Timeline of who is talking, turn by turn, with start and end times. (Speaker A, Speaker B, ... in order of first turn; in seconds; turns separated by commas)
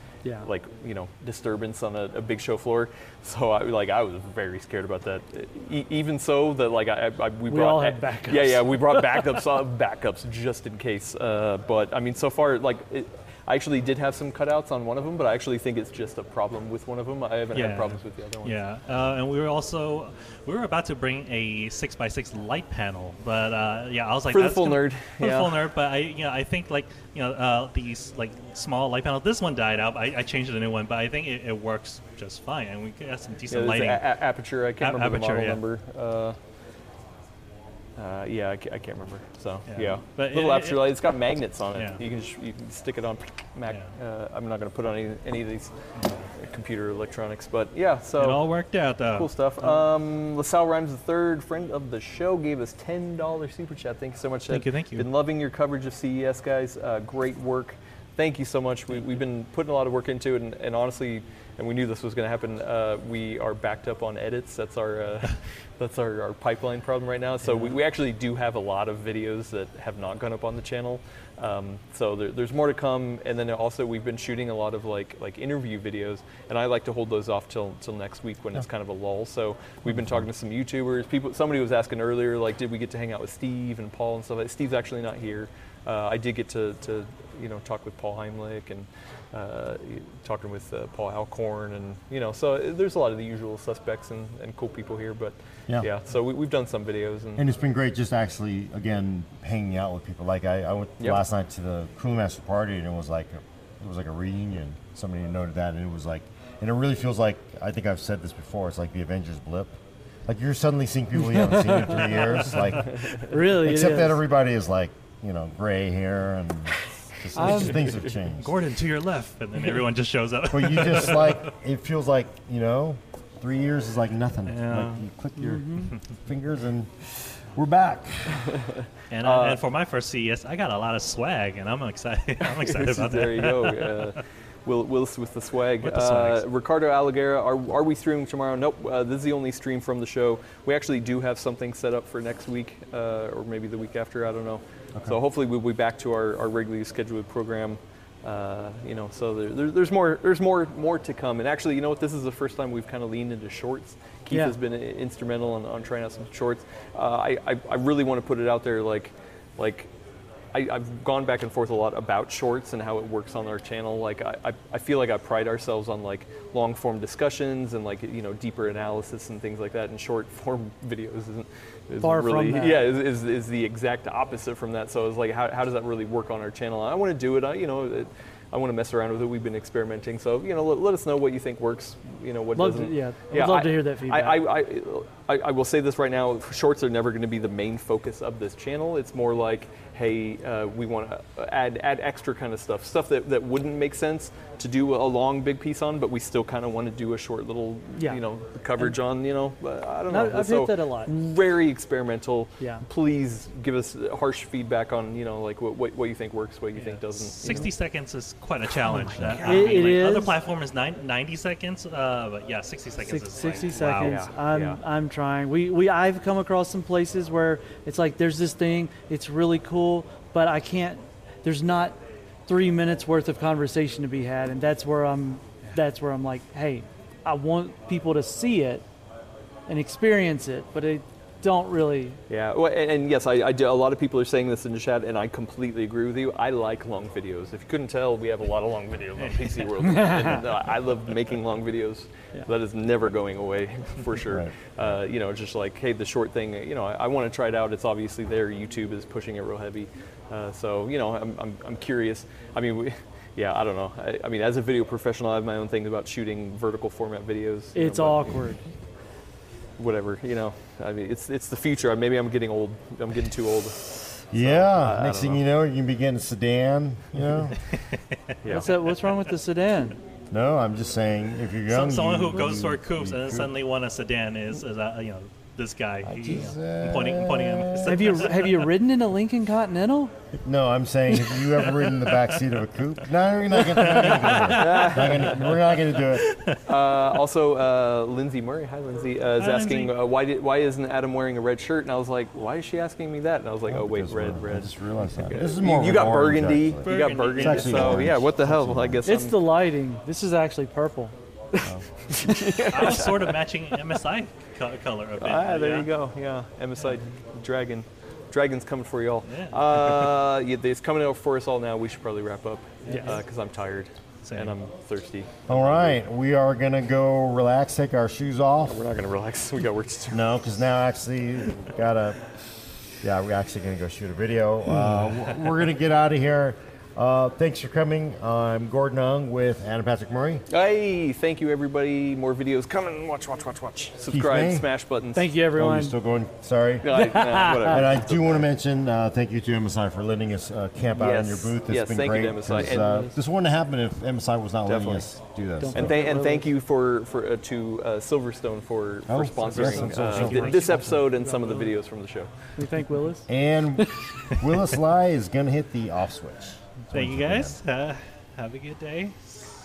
Speaker A: 0.4-18.6, Speaker B: 7.5-9.3, Speaker C: 17.5-34.1, Speaker A: 24.3-25.7, Speaker A: 33.5-36.4, Speaker C: 34.8-35.6, Speaker A: 38.0-45.7, Speaker C: 39.7-41.1, Speaker C: 41.8-42.0, Speaker C: 46.0-46.3, Speaker A: 46.3-48.5, Speaker C: 48.2-49.3, Speaker A: 49.1-97.5, Speaker C: 54.5-55.1, Speaker D: 97.4-118.6, Speaker B: 111.4-111.8, Speaker B: 113.2-114.2, Speaker B: 117.4-117.8, Speaker C: 118.3-121.5, Speaker D: 120.5-128.6, Speaker C: 124.5-125.0, Speaker B: 125.4-125.9, Speaker A: 128.6-129.6, Speaker C: 129.1-134.1, Speaker A: 132.5-159.9, Speaker C: 135.8-136.4, Speaker B: 154.3-154.6, Speaker A: 160.5-207.7, Speaker B: 172.0-172.9, Speaker B: 182.6-184.5, Speaker B: 200.1-201.1, Speaker C: 206.8-214.2, Speaker D: 209.1-209.4, Speaker A: 209.2-209.8, Speaker B: 209.4-210.4, Speaker B: 213.1-228.8, Speaker A: 214.0-214.8, Speaker B: 229.7-232.2, Speaker A: 232.3-258.4, Speaker B: 239.9-240.4, Speaker D: 244.3-244.5, Speaker B: 257.8-258.6, Speaker A: 259.8-265.4, Speaker D: 264.3-267.6, Speaker A: 268.4-268.8, Speaker B: 268.5-270.0, Speaker C: 268.7-269.2, Speaker D: 270.3-273.5, Speaker C: 271.7-278.7, Speaker D: 276.0-278.2, Speaker B: 277.9-280.1, Speaker D: 280.4-286.4, Speaker C: 283.6-285.5, Speaker A: 284.4-285.4, Speaker C: 286.2-286.6, Speaker A: 286.7-299.4, Speaker C: 289.4-289.9, Speaker D: 293.7-299.1, Speaker C: 296.8-298.1, Speaker B: 299.1-301.1, Speaker A: 301.5-303.4, Speaker C: 302.5-305.9, Speaker A: 305.2-316.0, Speaker C: 309.2-310.2, Speaker B: 312.9-313.2, Speaker C: 314.2-314.5, Speaker D: 315.5-318.8, Speaker A: 318.7-320.3, Speaker D: 320.1-322.2, Speaker D: 323.0-330.4, Speaker A: 330.5-335.3, Speaker D: 334.1-334.7, Speaker B: 335.1-335.9, Speaker D: 335.5-346.0, Speaker A: 336.8-338.4, Speaker B: 336.9-337.7, Speaker A: 340.9-343.1, Speaker B: 342.7-343.1, Speaker A: 344.6-345.1, Speaker B: 345.6-346.5, Speaker A: 345.7-352.3, Speaker D: 349.1-350.6, Speaker B: 349.5-351.7, Speaker B: 352.6-354.4, Speaker D: 353.3-357.6, Speaker C: 356.9-359.5